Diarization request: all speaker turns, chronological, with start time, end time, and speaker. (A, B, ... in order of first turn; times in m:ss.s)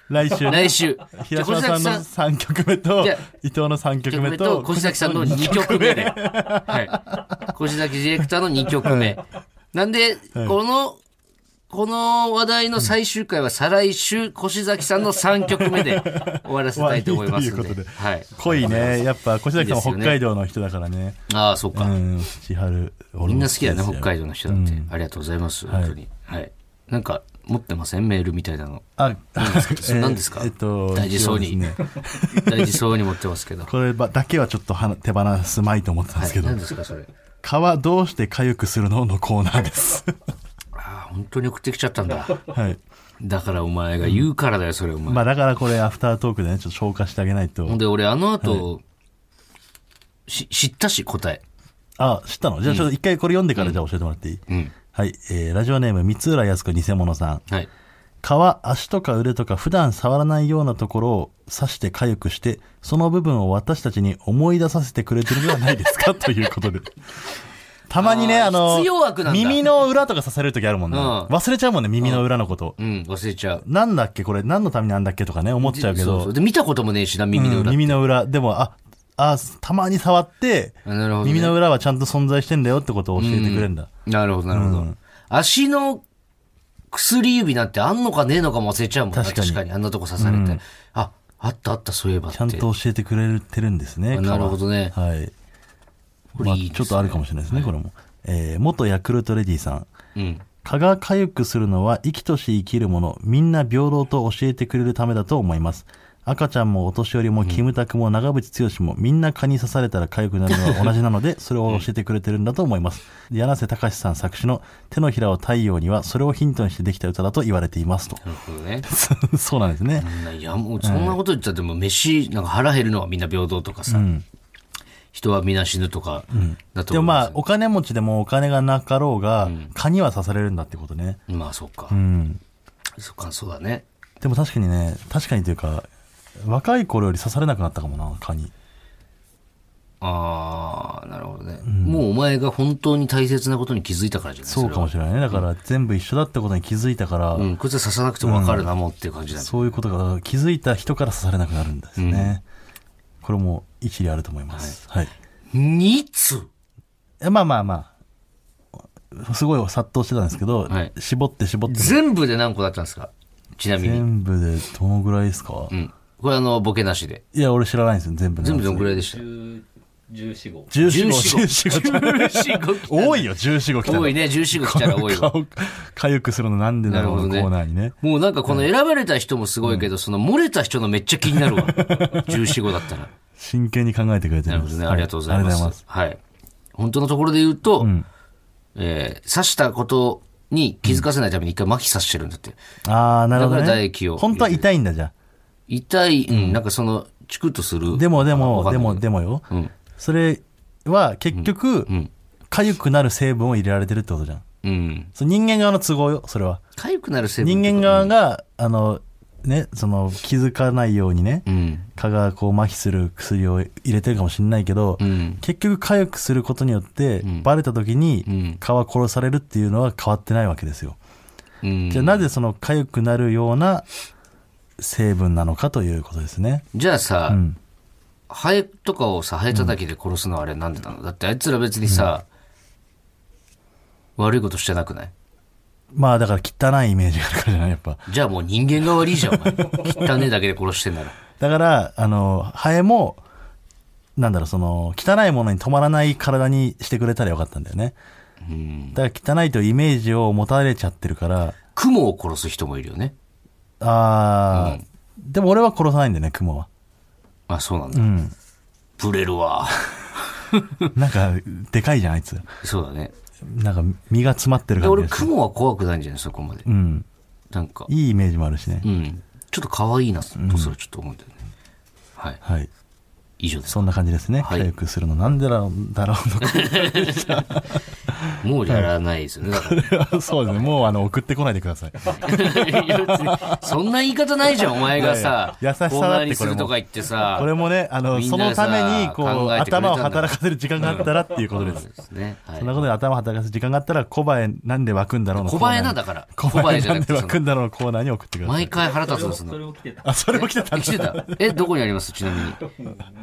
0:00.1-0:07.6 A
0:00.4-0:02.0 B
0:03.0-0:03.2 B
0:04.1-0:11.0 B
0:08.8-0:09.2 A
0:11.7-0:20.2 B
0:15.5-0:21.2 A
0:21.3-0:22.0 B
0:21.8-0:24.9 A
0:23.2-0:28.8 B
0:25.7-0:26.0 A
0:29.0-0:32.9 A
0:29.4-0:31.6 B
0:32.3-0:33.7 B
0:33.7-0:36.6 A
0:36.2-0:37.1 B
0:37.4-0:40.1 A
0:40.7-0:42.5 B
0:42.4-0:42.8 A
0:43.2-0:45.2 B
0:45.1-0:47.8 A
0:47.7-0:48.8 B
0:48.4-0:48.7 A
0:50.3-0:51.4 B
0:52.0-0:54.4 A
0:54.9-0:57.4 A
0:58.2-1:07.0 A
1:07.9-1:12.8 A
1:08.0-1:09.6 B
1:10.9-1:11.3 B
1:12.8-1:13.6 B
1:13.6-1:16.3 A
1:15.6-1:18.0 B
1:17.3-1:23.9 A
1:20.8-1:21.6 B
1:23.2-1:26.0 B
1:24.5-1:25.0 A
1:26.9-1:32.7 B
1:29.1-1:29.6 A
1:30.2-1:30.6 A
1:32.3-1:35.3 A
1:34.1-1:35.0 B
1:36.4-1:37.7 B
1:36.4-1:39.9 A
1:40.2-1:40.4 B
1:40.6-1:58.2 A
1:50.5-1:50.9 B
1:58.2-1:58.9 B
1:58.9-2:00.1 A
2:00.0-2:04.1 B
2:00.8-2:01.2 A
2:03.9-2:04.2 A
2:05.1-2:07.4 B
2:06.3-2:11.2 A
2:09.4-2:09.7 B
2:11.3-2:12.0 B
2:11.9-2:12.4 A
2:13.0-2:13.8 B
2:14.2-2:15.9 A
2:16.4-2:18.5 A
2:20.0-2:25.4 B
2:21.7-2:22.0 A
2:24.5-2:27.5 A
2:27.4-2:29.8 B
2:28.2-2:28.7 A
2:29.4-2:32.4 A
2:32.0-2:32.4 B
2:33.2-2:35.1 A
2:35.5-2:36.5 B
2:37.2-2:37.9 A
2:39.1-2:42.0 A
2:41.7-2:44.0 B
2:43.8-2:45.7 A
2:45.7-2:47.2 B
2:47.3-2:49.0 A
2:48.4-2:49.3 B
2:49.0-2:50.7 C
2:50.7-2:58.0 A
2:50.8-2:53.3 B
2:53.8-2:55.3 B
2:56.9-3:03.1 B
2:59.6-2:59.9 A
3:01.4-3:02.7 A
3:03.4-3:05.8 A
3:04.5-3:06.2 B
3:06.8-3:07.9 B
3:07.8-3:08.1 A
3:08.8-3:12.6 B
3:12.9-3:15.1 A
3:13.3-3:14.6 B
3:15.7-3:19.7 B
3:16.3-3:16.6 A
3:17.9-3:19.4 A
3:20.0-3:21.9 A
3:21.3-3:22.1 B
3:22.5-3:24.4 A
3:24.6-3:25.1 B
3:25.2-3:26.6 A
3:26.8-3:28.1 B
3:27.4-3:31.4 A
3:31.5-3:31.9 B
3:32.0-3:41.0 A
3:35.0-3:35.4 B
3:37.2-3:37.5 B
3:38.3-3:38.6 B
3:41.6-3:42.3 B
3:41.9-3:43.9 A
3:44.8-3:46.6 A
3:46.7-3:47.4 B
3:47.3-3:47.6 A
3:48.3-3:52.2 B
3:51.8-3:52.1 A
3:54.2-3:55.1 B
3:55.9-3:58.1 A
3:58.1-4:01.2 B
3:59.2-4:00.0 A
4:01.4-4:03.2 A
4:04.2-4:08.0 A
4:08.4-4:09.0 B
4:09.0-4:11.6 A
4:11.8-4:13.1 B
4:13.8-4:16.7 A
4:14.5-4:14.8 B
4:17.5-4:18.1 B
4:17.9-4:18.3 A
4:19.0-4:20.9 B
4:21.0-4:22.4 A
4:22.6-4:23.1 B
4:23.4-4:25.3 A
4:24.8-4:26.7 B
4:26.6-4:27.1 A
4:27.5-4:27.9 B
4:27.9-4:28.9 A
4:28.8-4:31.3 B
4:30.4-4:30.8 A
4:32.4-4:32.7 A
4:33.4-4:34.7 B
4:33.7-4:38.9 A
4:36.4-4:37.5 B
4:38.4-4:39.8 B
4:39.5-4:43.7 A
4:42.1-4:47.5 B
4:44.7-4:51.9 A
4:48.1-4:52.8 B
4:52.6-4:58.9 A
4:55.4-4:57.4 B
4:58.4-4:59.8 B
4:59.0-5:00.0 C
5:00.0-5:01.7 A
5:00.3-5:02.6 B
5:02.8-5:03.1 C